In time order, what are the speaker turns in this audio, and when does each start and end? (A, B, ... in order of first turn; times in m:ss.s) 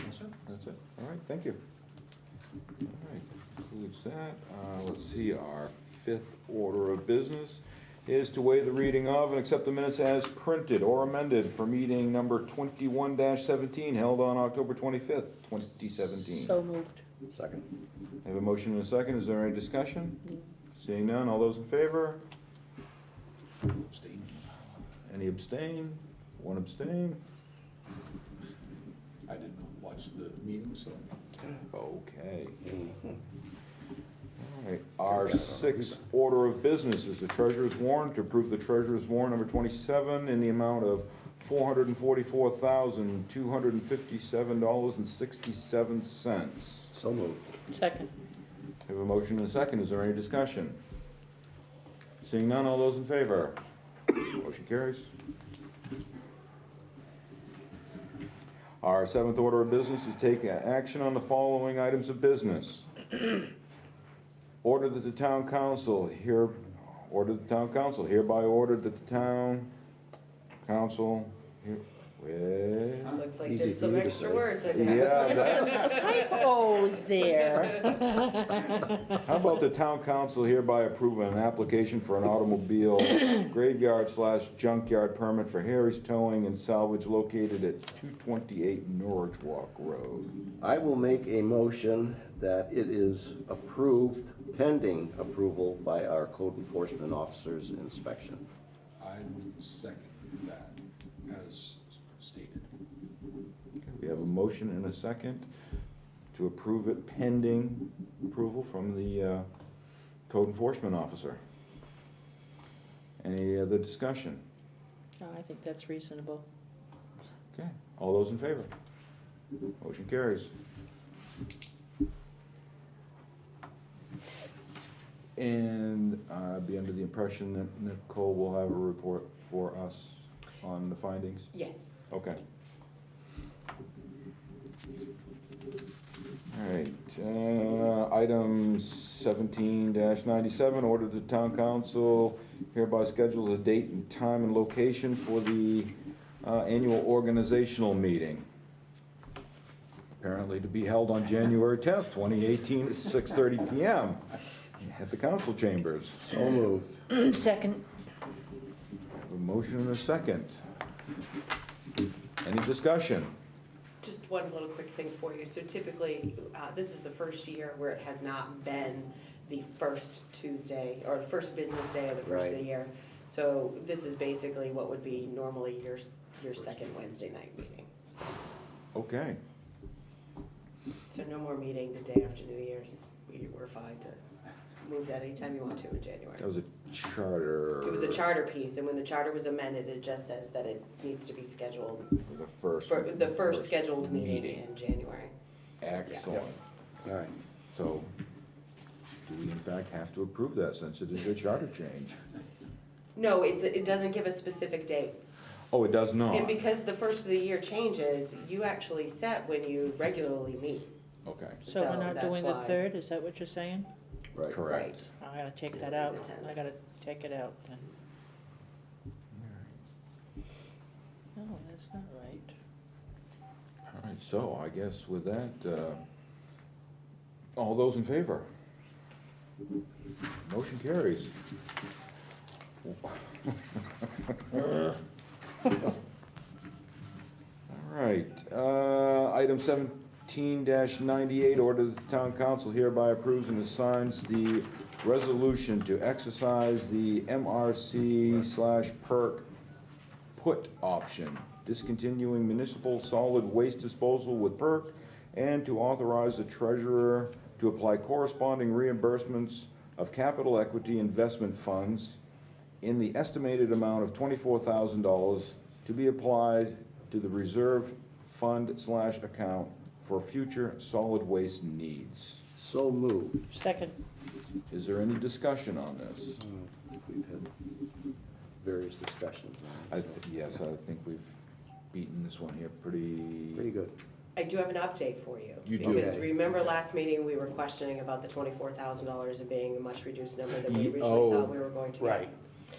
0:00.2-0:01.6 A
0:02.8-0:16.6 A
0:16.3-0:17.0 B
0:17.2-0:17.6 C
0:18.2-0:20.2 A
0:20.7-0:22.2 A
0:23.6-0:24.4 D
0:25.0-0:27.2 A
0:29.2-0:31.1 D
0:31.7-0:32.8 A
0:34.4-0:46.9 A
0:35.6-0:35.9 C
0:46.9-0:47.5 C
0:47.7-0:48.1 B
0:48.9-0:50.8 A
0:52.2-0:53.6 A
0:54.1-0:55.1 A
0:58.8-1:02.9 A
1:04.6-1:09.7 A
1:10.6-1:13.3 A
1:13.1-1:16.5 E
1:13.4-1:14.4 C
1:14.7-1:16.0 A
1:15.3-1:18.8 B
1:19.2-1:30.4 A
1:30.6-1:38.4 C
1:39.0-1:42.6 D
1:43.8-1:45.5 A
1:46.3-1:49.5 A
1:50.3-1:51.4 A
1:53.2-1:54.4 A
1:55.2-1:56.4 B
1:57.5-1:58.7 A
1:59.8-2:00.5 A
2:05.4-2:11.5 A
2:11.5-2:12.1 E
2:12.1-2:12.4 A
2:16.5-2:28.4 A
2:30.2-2:34.2 A
2:34.8-2:36.4 A
2:36.2-2:37.0 C
2:37.1-2:37.8 B
2:39.1-2:40.6 A
2:42.4-2:43.3 A
2:44.0-2:58.4 E
2:52.2-2:52.6 C
2:58.9-2:59.4 A
3:01.1-3:04.2 E
3:04.8-3:06.4 E
3:06.4-3:08.2 A
3:07.8-3:12.1 E
3:12.2-3:14.6 A
3:12.8-3:15.3 E
3:15.8-3:16.6 A
3:17.0-3:17.3 C
3:17.7-3:18.1 A
3:19.2-3:22.2 A
3:23.1-3:25.2 E
3:25.7-3:26.6 A
3:26.3-3:30.9 E
3:31.2-3:31.6 A
3:31.6-3:32.8 E
3:31.6-3:33.9 B
3:34.5-3:35.0 A
3:34.6-3:35.0 E
3:35.2-3:37.8 B
3:35.7-3:36.6 E
3:39.3-3:39.7 A
3:41.4-3:42.5 B
3:43.9-3:46.0 A
3:47.6-3:48.5 A
3:50.4-3:51.3 A
3:52.8-3:55.0 A
3:57.7-4:09.4 A
4:10.4-4:22.2 A
4:22.8-4:32.4 A
4:32.5-4:33.5 C
4:33.5-4:33.9 B
4:34.7-4:36.4 A
4:36.4-4:37.5 C
4:38.6-4:40.2 C
4:39.9-4:41.3 A
4:41.9-4:43.7 A
4:43.5-4:43.9 C
4:44.4-4:52.3 E
4:45.6-4:46.6 A
4:45.8-4:46.2 C
4:50.6-4:51.6 A
4:52.0-4:52.3 C